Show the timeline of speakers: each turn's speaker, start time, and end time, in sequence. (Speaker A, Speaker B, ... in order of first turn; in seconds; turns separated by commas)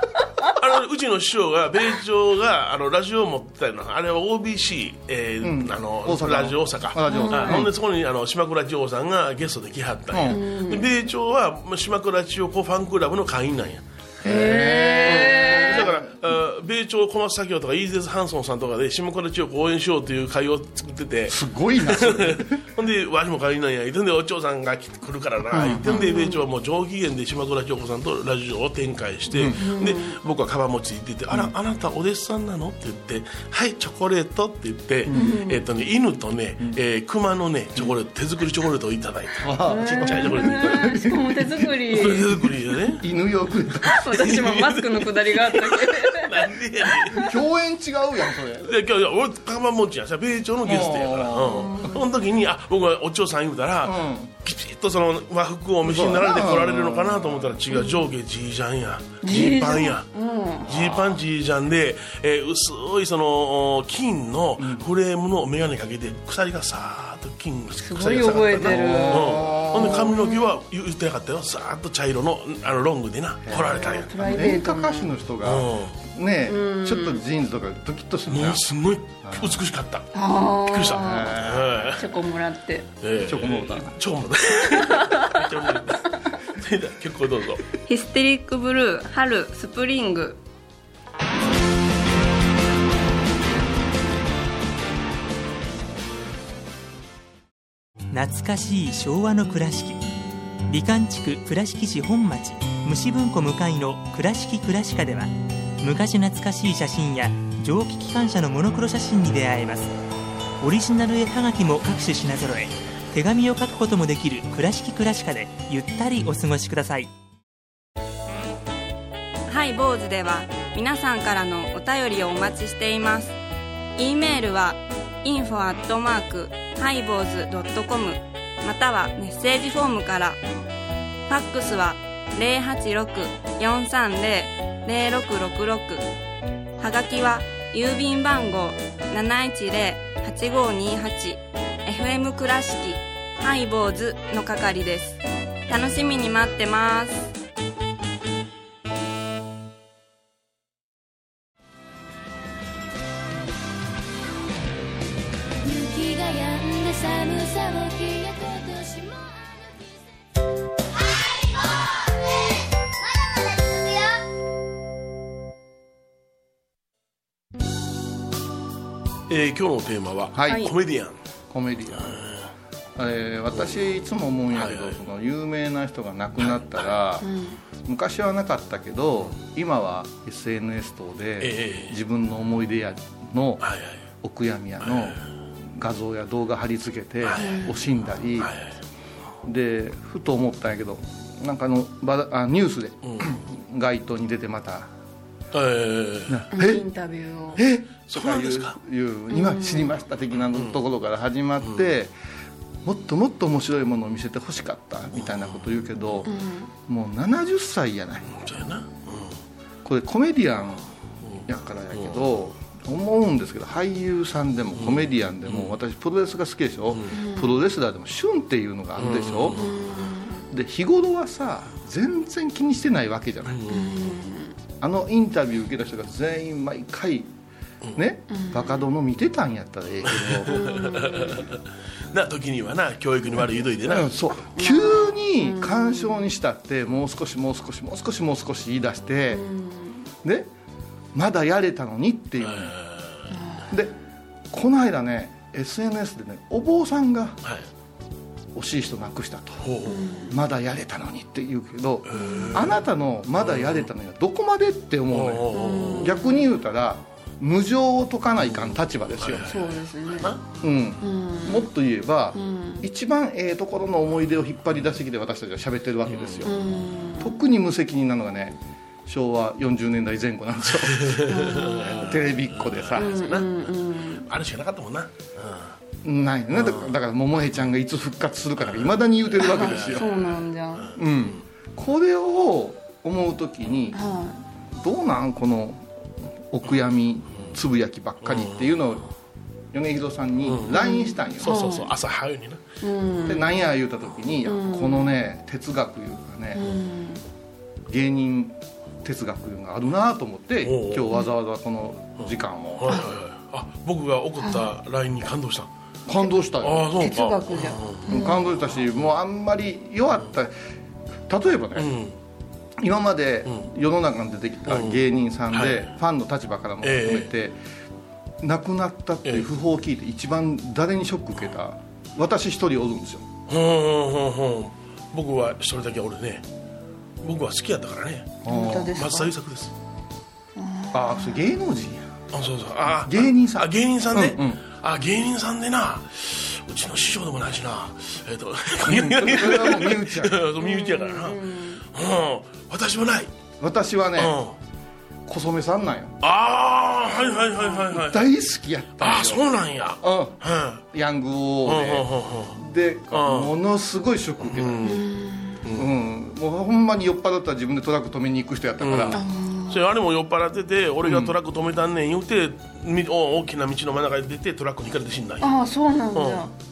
Speaker A: 0.5-13.8, Speaker B: 5.4-7.7, Speaker C: 7.1-7.7, Speaker B: 10.1-10.4, Speaker C: 10.3-10.9, Speaker B: 14.2-16.1, Speaker C: 14.2-15.9, Speaker A: 15.1-40.9, Speaker B: 21.3-22.6, Speaker B: 25.5-26.0, Speaker C: 25.9-26.4, Speaker B: 29.3-29.6, Speaker C: 29.5-30.2, Speaker B: 35.1-35.3, Speaker C: 35.1-35.6, Speaker B: 39.4-41.7, Speaker C: 39.7-42.3, Speaker A: 41.9-43.1, Speaker B: 42.9-44.0, Speaker C: 43.8-47.2, Speaker A: 44.1-47.2, Speaker B: 47.1-48.7, Speaker A: 48.6-60.1, Speaker B: 50.6-51.8, Speaker C: 51.6-52.0, Speaker B: 53.8-54.3, Speaker B: 55.8-57.6, Speaker C: 57.7-58.0, Speaker C: 59.2-60.8, Speaker A: 60.7-74.2, Speaker B: 60.7-61.1, Speaker B: 64.6-64.9, Speaker C: 67.8-70.5, Speaker B: 68.6-70.2, Speaker B: 73.5-78.6, Speaker C: 73.5-75.2, Speaker A: 75.4-76.0, Speaker C: 76.5-77.2, Speaker A: 78.3-80.1, Speaker B: 79.2-79.6, Speaker C: 80.1-81.4, Speaker A: 80.6-82.0, Speaker B: 80.9-82.0, Speaker C: 81.9-82.9, Speaker A: 83.0-87.6, Speaker B: 83.2-84.0, Speaker C: 84.7-85.4, Speaker D: 87.9-90.4, Speaker E: 98.1-100.0, Speaker E: 100.7-109.9, Speaker E: 110.6-117.1, Speaker D: 119.5-123.4, Speaker D: 124.0-130.4, Speaker D: 131.3-136.1, Speaker D: 136.8-147.3, Speaker F: 155.6-159.1, Speaker A: 169.3-171.2, Speaker B: 170.3-170.7, Speaker B: 171.5-172.2, Speaker A: 172.0-172.5, Speaker B: 173.0-177.2, Speaker A: 174.5-175.0, Speaker A: 176.4-176.9, Speaker C: 177.2-177.6, Speaker B: 177.8-183.6, Speaker A: 181.4-182.0, Speaker A: 183.6-184.0, Speaker B: 184.2-188.5, Speaker A: 184.8-185.2, Speaker A: 187.2-187.7, Speaker C: 187.4-187.8, Speaker A: 188.4-188.8, Speaker B: 189.4-194.9, Speaker A: 193.0-193.3, Speaker A: 195.5-196.5, Speaker B: 196.3-196.8, Speaker C: 196.5-197.6, Speaker B: 197.6-202.1, Speaker A: 198.1-198.8, Speaker C: 199.3-200.0, Speaker A: 200.5-200.8, Speaker B: 202.8-206.3, Speaker A: 205.2-205.7, Speaker C: 206.2-206.7, Speaker B: 206.9-208.3, Speaker A: 208.3-209.4, Speaker B: 209.8-210.9, Speaker A: 211.2-212.2, Speaker B: 211.5-219.6, Speaker A: 214.8-215.8, Speaker C: 217.1-217.5, Speaker A: 219.0-219.8, Speaker C: 219.6-220.5, Speaker B: 220.5-223.6, Speaker A: 223.5-224.2, Speaker C: 223.7-224.6, Speaker B: 224.8-227.3, Speaker B: 228.0-230.6, Speaker C: 228.3-228.9, Speaker A: 230.1-231.6, Speaker C: 230.5-231.4, Speaker A: 232.1-234.1, Speaker B: 233.8-239.4, Speaker C: 234.6-236.3, Speaker C: 239.3-240.1, Speaker B: 240.2-240.5, Speaker B: 241.1-242.8, Speaker A: 242.4-243.3, Speaker C: 243.3-243.8, Speaker B: 244.5-247.4, Speaker B: 248.6-249.7, Speaker A: 249.6-250.1, Speaker C: 249.9-250.4, Speaker B: 250.3-259.6, Speaker A: 252.1-252.8, Speaker C: 252.1-252.7, Speaker A: 253.4-253.9, Speaker A: 255.1-256.1, Speaker C: 255.5-256.5, Speaker A: 258.5-260.4, Speaker C: 259.5-260.4, Speaker B: 260.6-266.5, Speaker C: 261.0-261.7, Speaker C: 262.3-262.9, Speaker A: 266.1-266.6, Speaker C: 266.4-267.4, Speaker B: 267.2-273.2, Speaker A: 270.9-275.8, Speaker C: 271.3-272.1, Speaker C: 273.0-274.2, Speaker B: 276.0-280.1, Speaker A: 276.6-276.9, Speaker A: 278.7-281.4, Speaker C: 279.4-280.9, Speaker B: 281.0-284.0, Speaker C: 283.9-284.4, Speaker B: 284.7-289.1, Speaker A: 288.2-288.8, Speaker B: 289.7-291.7, Speaker A: 290.5-290.8, Speaker C: 290.7-291.9, Speaker A: 291.4-292.8, Speaker C: 292.8-293.5, Speaker B: 293.3-296.6, Speaker C: 294.5-295.2, Speaker C: 296.5-297.2, Speaker B: 297.9-303.0, Speaker A: 300.6-301.1, Speaker A: 302.8-305.7, Speaker C: 304.4-304.7, Speaker B: 306.1-306.9, Speaker A: 306.6-308.1, Speaker C: 307.0-308.4, Speaker B: 308.1-310.5, Speaker B: 311.3-311.9, Speaker A: 311.8-312.1, Speaker B: 312.8-317.6, Speaker A: 314.7-315.9, Speaker A: 316.8-317.3, Speaker B: 318.4-323.3, Speaker A: 323.5-326.4, Speaker A: 327.2-329.7, Speaker B: 328.4-328.9, Speaker C: 328.4-329.3, Speaker C: 330.6-331.5, Speaker B: 330.9-332.1, Speaker A: 332.3-343.3, Speaker B: 333.1-334.6, Speaker B: 338.9-340.4, Speaker C: 340.6-341.8, Speaker B: 343.6-344.4, Speaker A: 344.2-344.6, Speaker B: 345.3-346.1, Speaker A: 346.2-348.4, Speaker C: 347.3-347.7, Speaker B: 347.8-349.4, Speaker A: 349.0-350.8, Speaker B: 350.0-350.4, Speaker B: 350.9-354.9, Speaker A: 351.6-352.6, Speaker A: 353.1-353.6, Speaker A: 354.4-355.0, Speaker C: 354.8-355.6, Speaker A: 355.6-355.9, Speaker B: 355.7-359.2, Speaker A: 358.8-365.6, Speaker C: 359.1-359.9, Speaker B: 361.0-361.3, Speaker C: 365.4-366.5, Speaker A: 366.1-366.5